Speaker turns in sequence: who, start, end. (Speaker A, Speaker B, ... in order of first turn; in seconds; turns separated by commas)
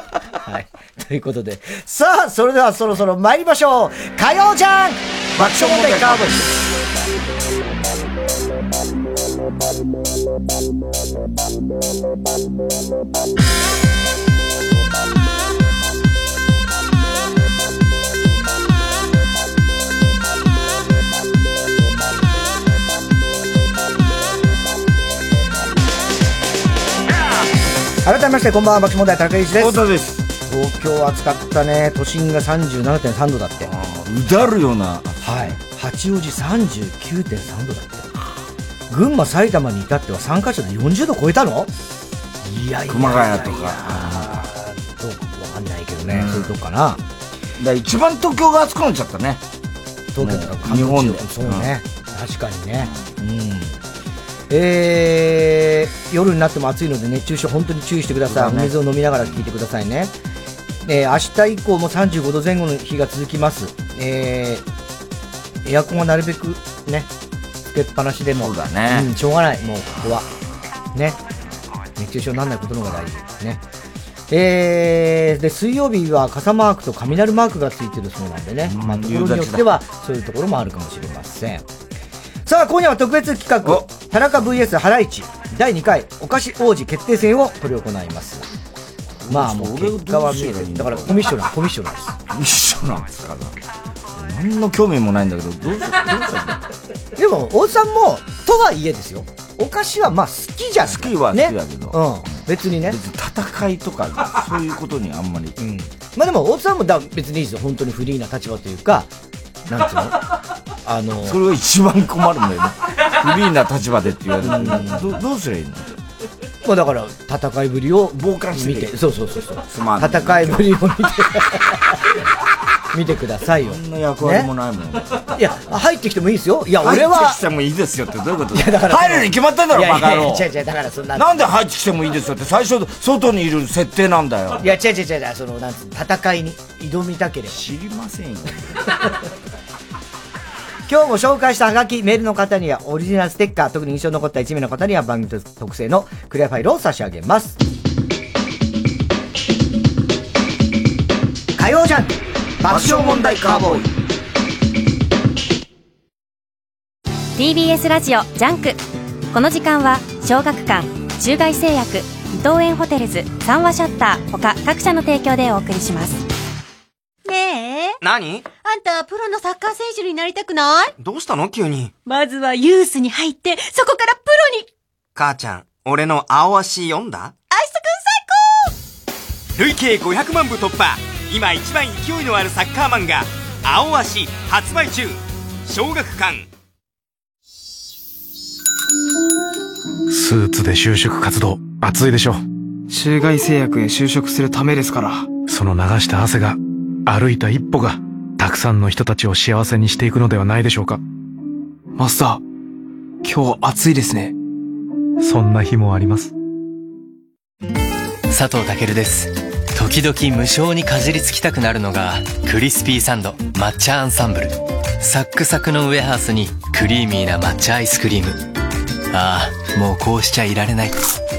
Speaker A: 0.4-6.5, Speaker B: 5.4-6.6, Speaker A: 28.1-29.8, Speaker B: 29.6-30.3, Speaker A: 30.4-33.7, Speaker B: 33.6-35.6, Speaker A: 35.2-38.1, Speaker A: 38.9-41.7, Speaker A: 42.4-47.0, Speaker B: 42.9-44.4, Speaker B: 46.1-46.5, Speaker B: 47.6-49.4, Speaker A: 50.1-53.8, Speaker B: 50.2-51.7, Speaker B: 52.8-53.0, Speaker A: 54.5-60.1, Speaker B: 58.3-58.7, Speaker A: 60.9-64.6, Speaker A: 65.6-67.1, Speaker A: 67.7-70.3, Speaker B: 68.4-69.1, Speaker A: 72.0-73.6, Speaker A: 74.3-81.7, Speaker B: 78.6-79.8, Speaker A: 82.5-88.5, Speaker B: 89.2-91.4, Speaker A: 89.3-92.2, Speaker B: 92.3-93.6, Speaker B: 94.1-96.6, Speaker A: 97.2-103.0, Speaker B: 100.8-102.3, Speaker B: 102.9-105.6, Speaker A: 105.6-109.1, Speaker A: 109.7-110.2, Speaker A: 110.8-111.4, Speaker B: 111.2-115.9, Speaker A: 114.4-115.0, Speaker A: 116.6-122.0, Speaker B: 118.1-118.9, Speaker B: 119.6-120.6, Speaker A: 122.9-124.5, Speaker B: 123.6-125.3, Speaker A: 125.4-127.4, Speaker B: 126.8-130.5, Speaker A: 128.5-131.5, Speaker B: 131.1-134.7, Speaker A: 134.6-137.6, Speaker B: 137.5-138.9, Speaker A: 140.9-147.6, Speaker A: 151.6-153.9, Speaker B: 152.7-153.9, Speaker C: 157.4-158.8, Speaker C: 159.3-166.2, Speaker D: 167.3-167.9, Speaker E: 168.0-168.5, Speaker D: 168.5-170.9, Speaker E: 171.0-171.9, Speaker D: 172.1-174.7, Speaker E: 175.2-177.3, Speaker D: 177.5-178.5, Speaker E: 179.6-186.5, Speaker F: 190.1-192.4, Speaker G: 192.9-195.3, Speaker F: 195.5-201.0, Speaker G: 201.9-202.4, Speaker G: 203.2-204.3, Speaker F: 205.2-206.3, Speaker H: 208.3-218.4, Speaker H: 219.1-221.0